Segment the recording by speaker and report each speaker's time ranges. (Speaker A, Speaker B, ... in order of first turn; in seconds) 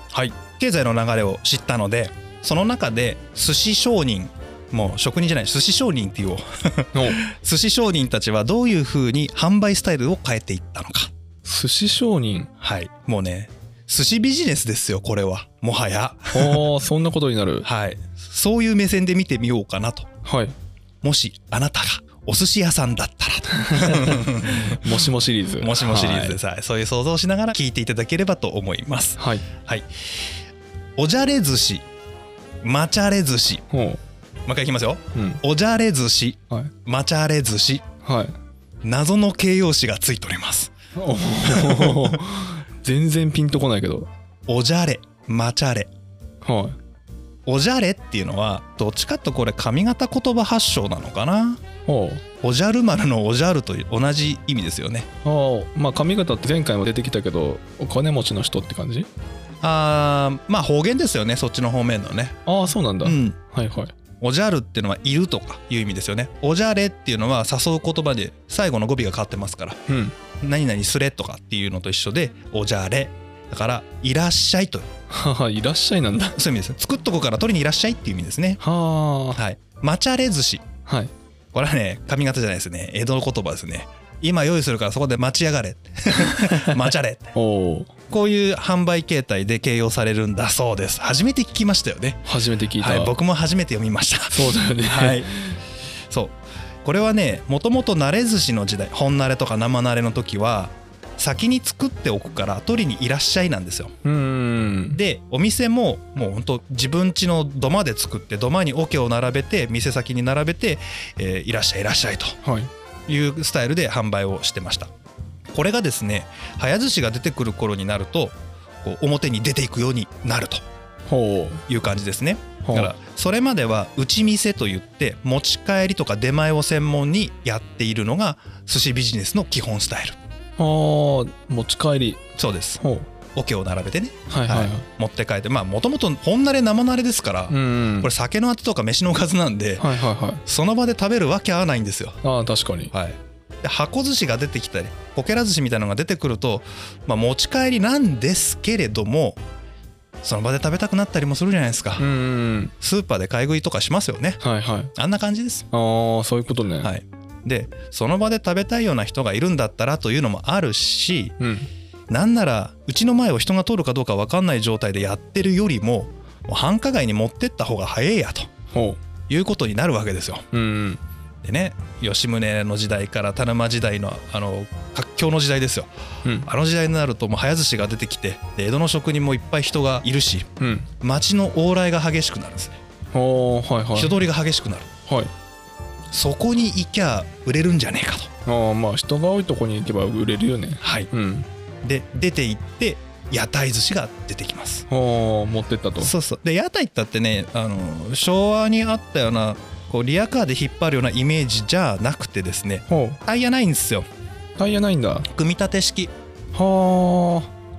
Speaker A: 0.1-11.1, 12.6-16.6, 17.6-20.1, 21.0-24.9, 25.6-30.3, 31.0-31.9, 32.6-33.6, 34.5-37.9, 38.8-40.7, 41.4-42.2, 44.5-45.9, 47.5-51.6, 52.4-55.1, 59.6-62.4, 63.0-63.4, 64.2-69.8, 70.4-74.9, 76.4-78.6, 79.3-80.7, 81.5-87.3, 88.1-95.3, 96.1-103.9, 104.9-112.4, 113.1-114.9, 115.5-120.6, 121.7-130.2, 132.4-132.8, 133.3-139.9, 140.5-142.2, 142.9-149.4, 150.2-152.0, 152.8-154.4, 154.9-155.7, 156.8-161.3, 162.1-168.5, 169.3-170.5, 171.4-175.9, 176.4-180.5, 181.0-182.8, 183.9-184.9, 186.1-188.3, 190.8-191.1, 191.8-194.8, 196.0-204.1, 205.3-206.1
Speaker B: 6.9-7.2, 11.4-12.5, 16.3-17.7, 20.2-20.5, 23.5-26.4, 29.2-29.4, 33.7-34.0, 35.1-35.4, 38.0-38.3, 41.0-44.1, 46.4-46.8, 51.9-52.2, 55.2-59.1, 62.5-63.9, 69.9-70.1, 75.1-76.4, 78.6-79.4, 80.9-81.1, 86.2-86.8, 87.3-87.9, 92.2-93.1, 94.3-95.6, 104.0-105.0, 112.4-112.7, 121.1-121.6, 122.6-122.9, 130.6-132.2, 132.8-133.1, 134.3-134.9, 137.5-138.1, 139.8-140.4, 142.2-142.9, 152.0-152.7, 154.4-154.9, 155.7-156.9, 161.4-161.7, 168.7-169.0, 170.5-171.0, 180.6-180.9, 183.1-184.2, 188.4-191.5, 194.9-196.1, 202.9-203.2, 204.6-205.3, 206.5-207.5